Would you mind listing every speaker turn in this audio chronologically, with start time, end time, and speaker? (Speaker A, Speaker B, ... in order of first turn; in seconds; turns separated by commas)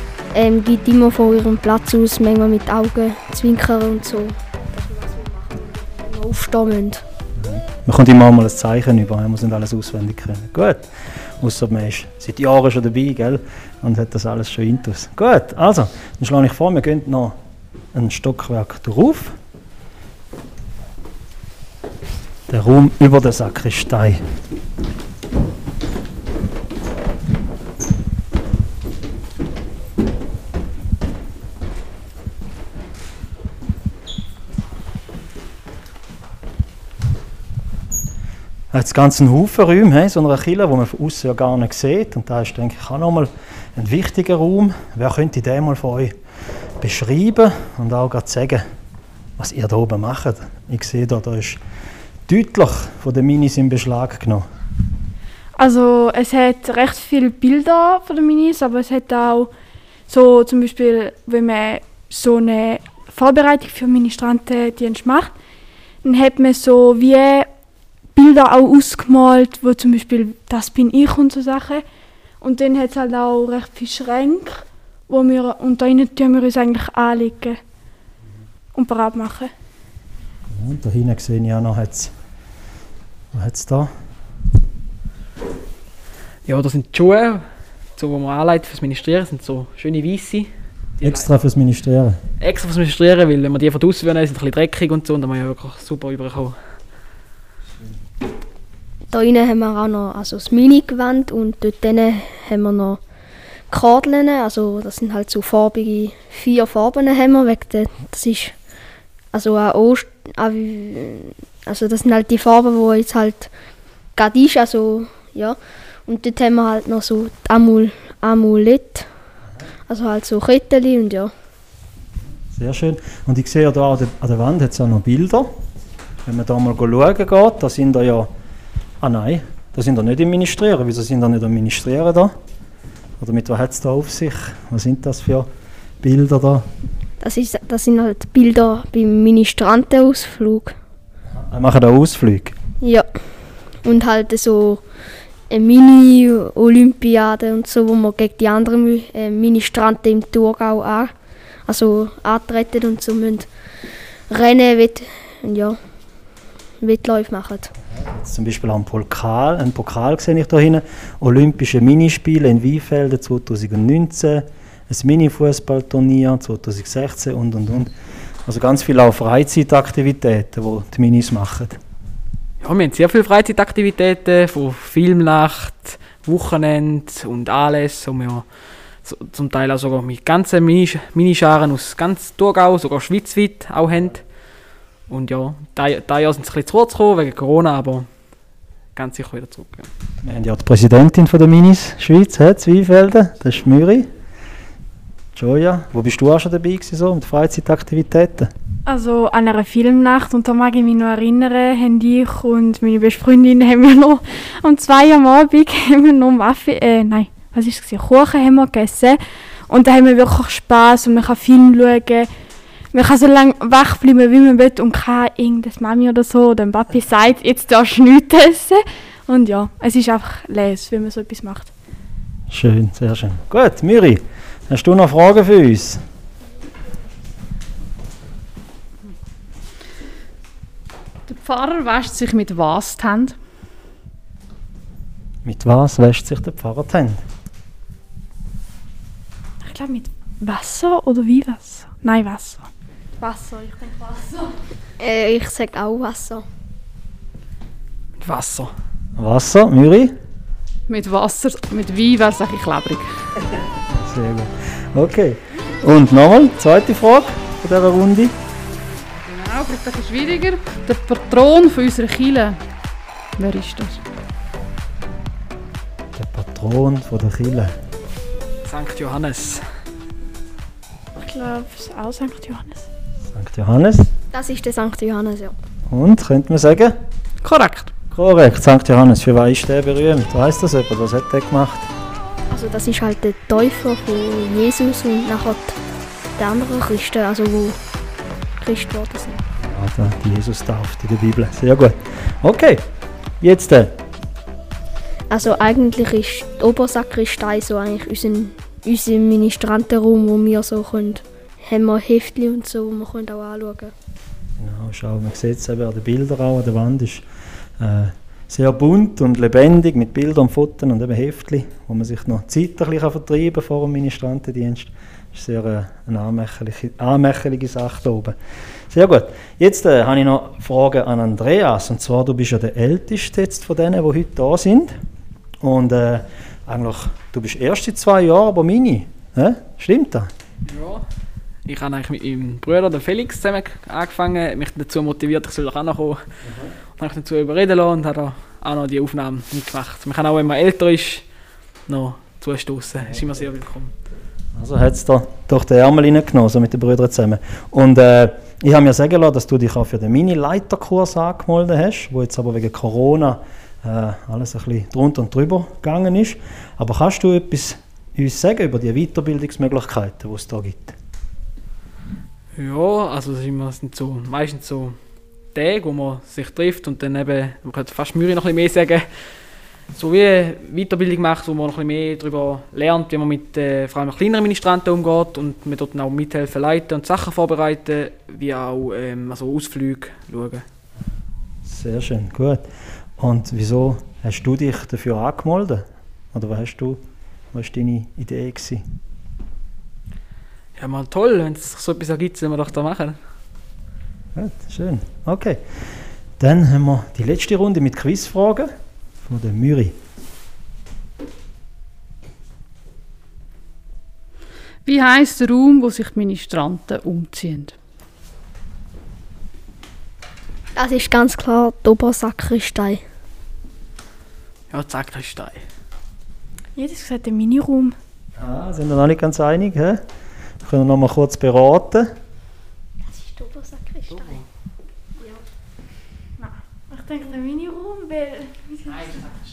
Speaker A: 0.3-7.0, Speaker B: 7.4-17.4, Speaker B: 17.9-19.4, Speaker B: 22.5-24.2, Speaker B: 38.7-46.1, Speaker B: 46.8-48.6, Speaker B: 49.4-51.6, Speaker B: 52.3-54.4, Speaker C: 55.6-59.5, Speaker C: 60.1-65.3, Speaker C: 66.0-67.5, Speaker C: 68.1-71.8, Speaker C: 72.4-77.6, Speaker C: 78.7-79.5, Speaker B: 80.5-82.1, Speaker B: 83.3-83.9, Speaker D: 86.5-91.3, Speaker B: 91.0-92.2, Speaker D: 92.4-96.6, Speaker A: 99.1-103.0, Speaker A: 103.7-108.5, Speaker A: 109.3-113.5, Speaker A: 114.2-119.1, Speaker A: 119.9-121.3, Speaker B: 122.5-125.6, Speaker B: 126.2-128.3, Speaker B: 129.0-132.3, Speaker B: 133.2-135.5, Speaker B: 136.0-136.7, Speaker A: 137.2-140.8, Speaker B: 141.3-142.6, Speaker A: 142.8-143.1, Speaker A: 143.8-144.8, Speaker A: 145.5-151.1, Speaker A: 151.7-153.5, Speaker A: 154.3-155.8, Speaker A: 156.8-157.7, Speaker B: 157.9-167.9, Speaker B: 168.4-171.8, Speaker D: 172.6-178.4, Speaker D: 179.0-184.2, Speaker D: 185.1-188.1, Speaker D: 188.9-189.9, Speaker B: 190.2-194.1, Speaker B: 195.3-198.5, Speaker C: 198.8-212.3, Speaker C: 212.9-221.7, Speaker B: 222.5-226.0, Speaker E: 231.3-233.3, Speaker B: 235.4-237.2, Speaker C: 239.6-244.5, Speaker A: 245.0-246.4, Speaker D: 248.2-248.7, Speaker B: 249.2-250.1, Speaker E: 250.9-253.4, Speaker B: 253.7-258.4, Speaker E: 259.2-262.6, Speaker E: 263.4-264.0, Speaker B: 266.1-267.8, Speaker D: 268.6-269.7, Speaker C: 271.1-272.9, Speaker B: 273.3-274.1, Speaker A: 274.3-275.5, Speaker B: 275.9-277.0, Speaker E: 277.4-277.9, Speaker B: 278.1-281.9, Speaker A: 282.5-285.8, Speaker A: 286.4-287.8, Speaker A: 288.6-289.4, Speaker B: 289.6-292.9, Speaker B: 293.4-293.9, Speaker A: 295.3-303.9, Speaker B: 304.6-307.2, Speaker B: 307.8-318.4, Speaker B: 318.9-325.0, Speaker B: 325.6-330.3, Speaker D: 330.6-331.0, Speaker D: 331.6-336.2, Speaker B: 336.4-336.7, Speaker D: 337.0-341.2, Speaker D: 341.9-343.9, Speaker B: 343.0-343.4, Speaker B: 344.5-360.9, Speaker D: 362.5-365.0, Speaker D: 365.5-369.4, Speaker D: 369.9-380.6, Speaker B: 381.6-382.6, Speaker B: 383.2-387.0, Speaker B: 387.5-388.8, Speaker D: 390.8-393.2, Speaker B: 394.3-399.9, Speaker E: 404.8-407.8, Speaker A: 410.8-413.0, Speaker D: 414.7-415.6, Speaker C: 416.8-417.9, Speaker B: 418.4-420.0, Speaker B: 420.6-422.1, Speaker A: 423.1-424.4, Speaker D: 424.1-424.4, Speaker C: 426.4-429.2